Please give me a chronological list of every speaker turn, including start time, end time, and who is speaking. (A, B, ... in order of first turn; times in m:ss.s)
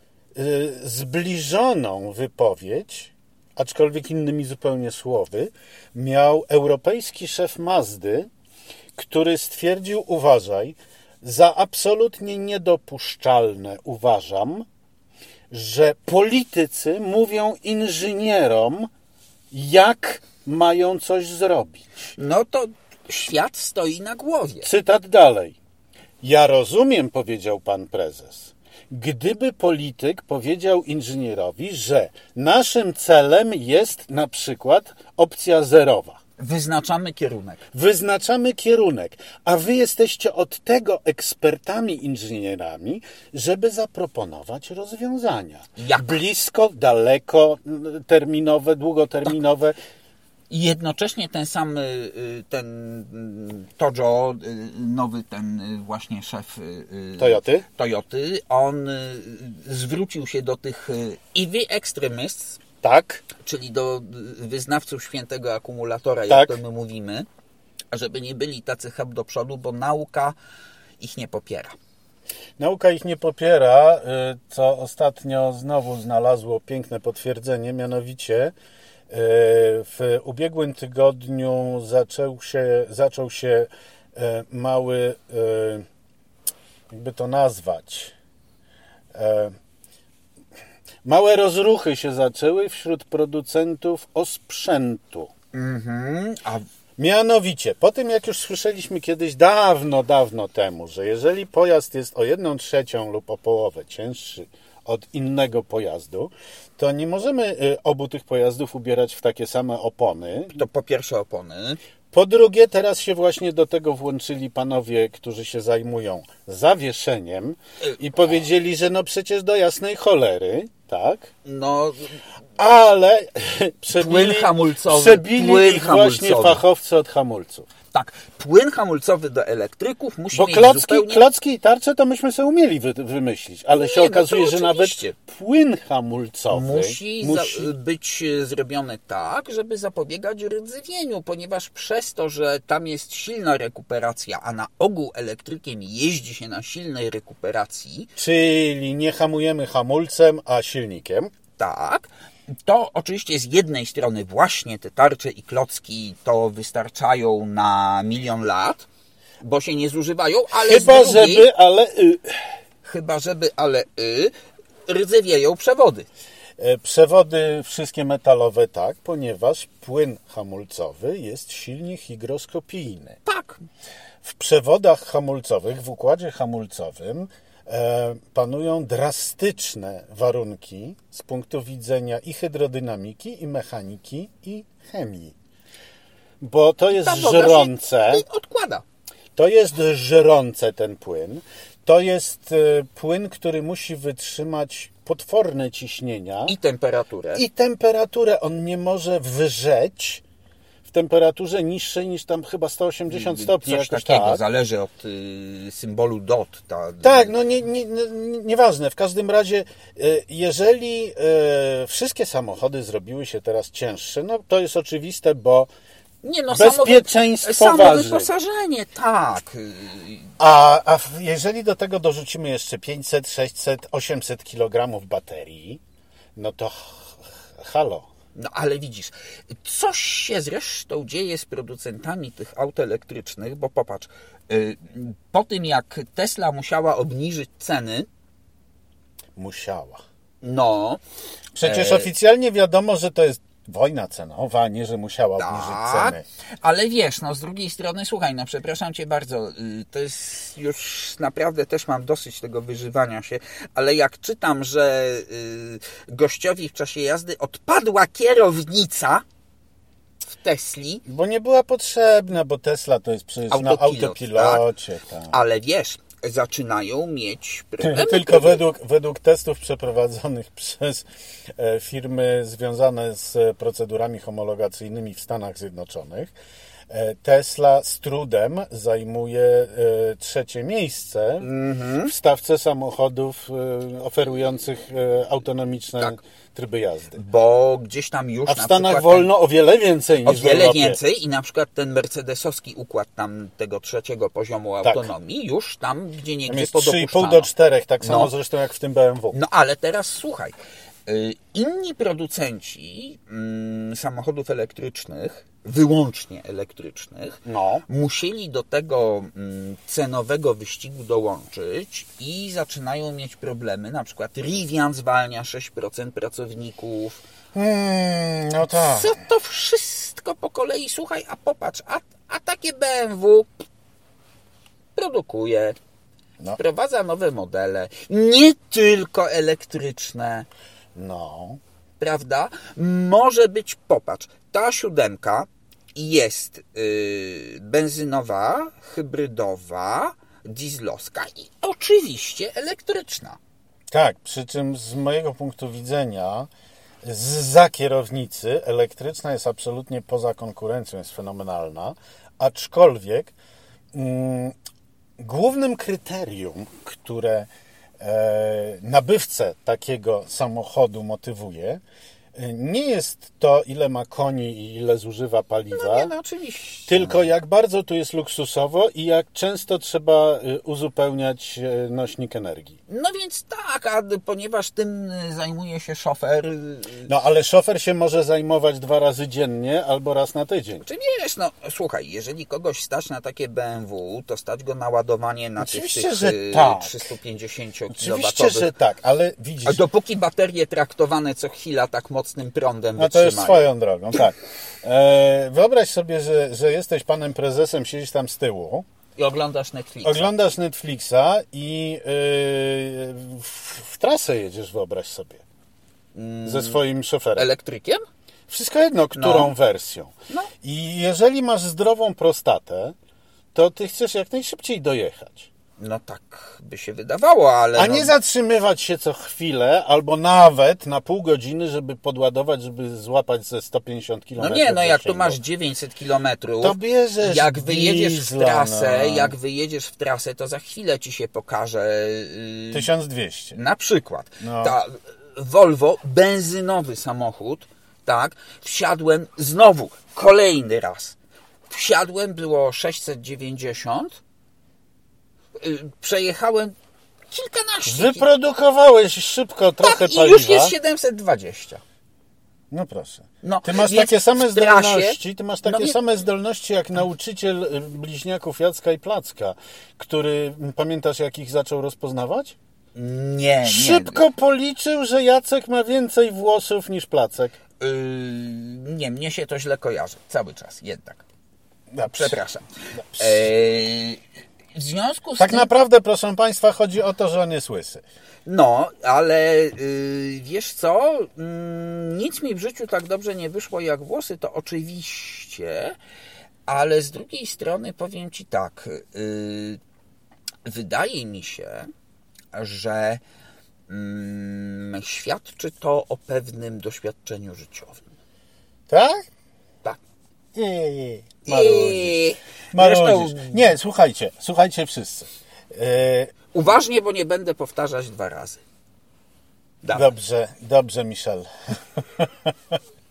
0:00.4-0:08.3 A
0:09.0-0:14.7 A
0:15.5-0:18.9 A
0:19.5-0:21.9 A
0:22.2-0:24.7 B
0:24.6-0:25.6 A
0:26.2-0:36.2 A
0:36.4-0:37.6 B
0:37.7-0:49.8 A
0:45.8-0:46.2 B
0:50.5-1:02.6 B
0:57.2-0:57.6 A
1:02.8-1:03.2 A
1:03.4-1:07.3 B
1:06.3-1:06.6 A
1:07.9-1:10.4 B
1:11.0-1:11.8 B
1:12.6-1:18.5 A
1:19.1-1:25.8 A
1:26.9-1:28.1 A
1:29.1-1:29.6 A
1:31.0-1:35.3 A
1:35.5-1:36.6 B
1:37.0-1:50.6 A
1:50.6-1:51.8 B
1:52.1-2:01.3 A
2:01.4-2:02.2 B
2:02.6-2:07.7 A
2:03.9-2:06.6 B
2:07.9-2:11.2 B
2:10.3-2:17.7 A
2:13.7-2:15.2 B
2:16.5-2:28.1 B
2:28.2-2:31.3 A
2:31.6-2:38.9 B
2:39.4-2:41.5 B
2:40.5-2:42.4 A
2:42.8-2:44.3 B
2:44.9-2:46.1 B
2:46.6-2:53.2 A
2:53.3-2:53.6 B
2:54.2-3:05.4 A
3:06.4-3:08.2 A
3:06.9-3:08.8 B
3:09.4-3:16.6 A
3:16.5-3:17.4 B
3:17.4-3:20.2 A
3:20.8-3:24.4 A
3:23.1-3:27.4 B
3:27.0-3:35.7 A
3:36.2-3:40.3 B
3:36.5-3:38.3 A
3:40.4-3:45.8 A
3:46.4-3:48.1 A
3:48.4-3:58.1 B
3:59.4-4:00.0 A
4:00.4-4:01.0 B
4:01.6-4:06.2 A
4:01.6-4:02.1 B
4:05.4-4:19.2 B
4:20.3-4:21.0 B
4:21.0-4:25.4 A
4:23.5-4:24.6 B
4:25.3-4:28.6 B
4:27.8-4:36.3 A
4:36.9-4:41.5 A
4:41.4-4:42.1 B
4:42.0-4:47.2 A
4:47.2-4:49.3 B
4:48.5-4:51.0 A
4:50.2-4:57.5 B
4:54.8-4:55.1 A
4:56.5-4:59.4 A
4:58.0-4:58.3 B
4:59.3-5:00.5 B
5:01.1-5:17.2 B
5:07.5-5:07.8 A
5:17.5-5:19.2 A
5:18.7-5:23.6 B
5:25.0-5:25.8 B
5:26.6-5:30.5 B
5:31.0-5:31.6 A
5:32.0-5:43.4 B
5:43.9-5:46.5 A
5:47.0-5:53.3 A
5:53.9-5:54.6 A
5:55.2-6:01.8 A
6:02.4-6:06.1 A
6:05.7-6:07.3 B
6:06.9-6:12.8 A
6:12.9-6:17.1 B
6:17.1-6:20.8 A
6:20.8-6:28.7 B
6:25.6-6:27.1 A
6:27.9-6:29.8 A
6:29.6-6:33.7 B
6:33.0-6:38.9 A
6:39.2-6:40.3 B
6:40.0-6:45.4 A
6:46.1-6:46.8 B
6:46.4-6:47.5 A
6:47.4-6:48.0 B
6:48.5-6:53.0 A
6:49.2-6:49.5 B
6:53.5-6:55.5 A
6:55.8-6:58.1 B
6:57.8-7:05.4 A
7:04.4-7:12.9 B
7:06.6-7:09.4 A
7:12.7-7:13.6 A
7:13.6-7:21.2 B
7:14.4-7:14.8 A
7:21.7-7:24.2 B
7:25.6-7:26.8 B
7:27.3-7:28.3 B
7:27.9-7:30.8 A
7:29.8-7:31.8 B
7:32.7-7:42.6 A
7:33.4-7:36.0 B
7:43.0-7:44.3 B
7:43.7-7:47.6 A
7:47.8-7:51.2 B
7:51.9-7:52.4 A
7:52.1-7:54.2 B
7:53.0-7:53.5 A
7:54.8-7:55.7 B
7:55.4-7:58.0 A
7:58.5-8:06.0 B
8:06.7-8:09.8 B
8:10.7-8:11.9 B
8:12.5-8:13.2 B
8:13.9-8:18.1 B
8:18.9-8:19.2 A
8:20.6-8:26.3 A
8:21.4-8:23.7 B
8:26.5-8:28.6 B
8:29.8-8:30.1 B
8:29.9-8:32.8 A